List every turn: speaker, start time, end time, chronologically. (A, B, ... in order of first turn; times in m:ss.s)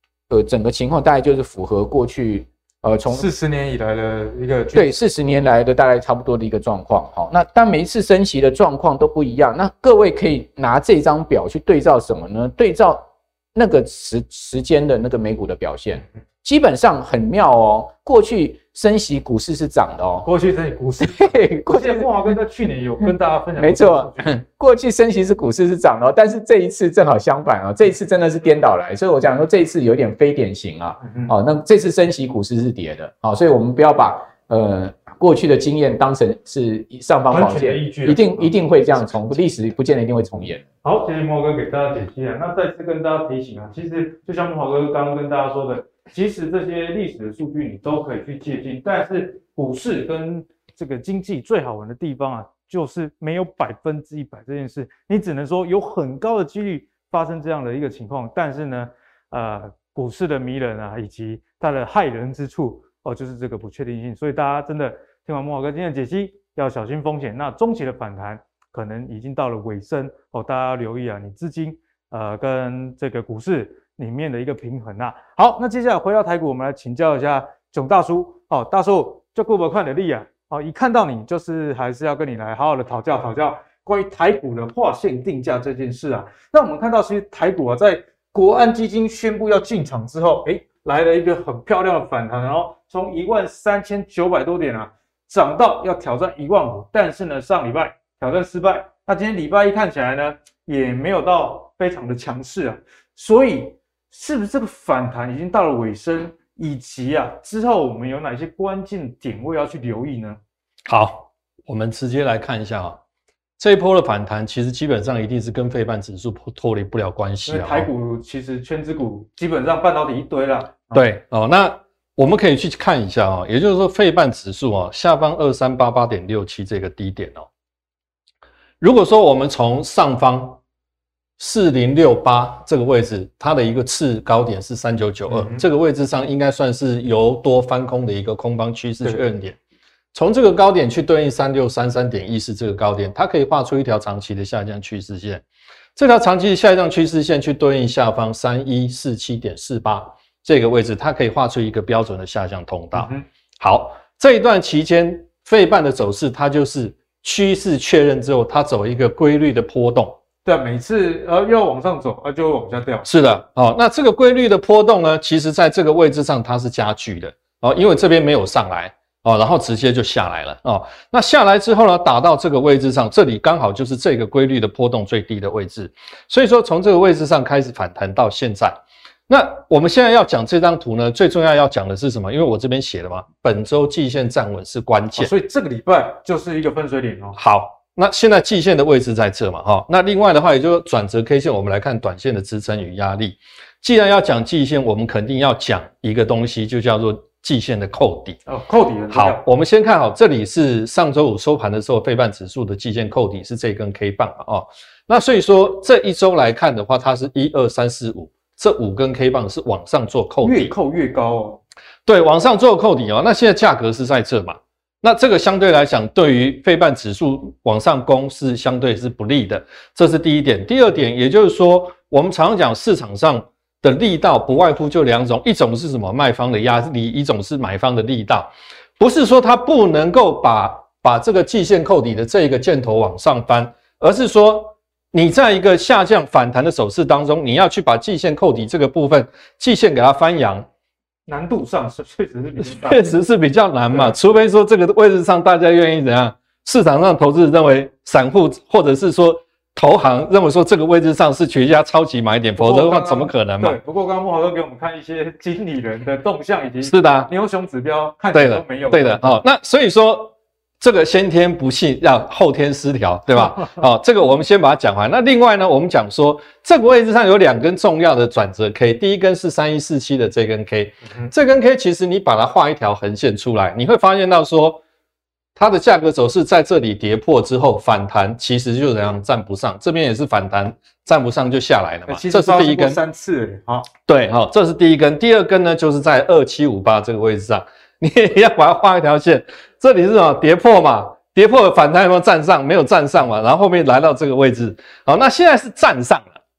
0:00.3-0:03.3 A
0:03.1-0:04.9 B
0:04.7-0:20.3 A
0:20.2-0:24.4 B
0:21.0-0:22.1 A
0:23.6-0:40.6 A
0:31.0-0:31.3 B
0:37.3-0:38.5 B
0:40.8-1:50.4 B
1:50.8-1:53.0 C
1:53.6-1:57.9 C
1:57.4-2:01.1 B
2:00.9-2:07.4 C
2:08.8-2:10.6 C
2:11.4-2:19.6 C
2:15.3-2:15.6 B
2:20.1-2:25.4 C
2:26.0-2:40.2 C
2:32.9-2:33.2 B
2:40.4-2:43.1 B
2:43.0-2:58.8 C
2:59.3-3:05.3 C
3:05.2-3:07.4 B
3:07.4-3:18.4 C
3:18.4-3:19.4 B
3:19.1-3:30.7 C
3:30.4-3:31.6 B
3:32.0-4:00.6 C
4:01.3-4:03.1 B
4:02.6-4:13.8 C
4:03.9-4:04.3 B
4:12.6-4:19.4 B
4:16.8-4:17.3 C
4:18.3-4:34.8 C
4:35.6-4:43.0 C
4:42.1-4:43.9 B
4:44.0-4:56.3 C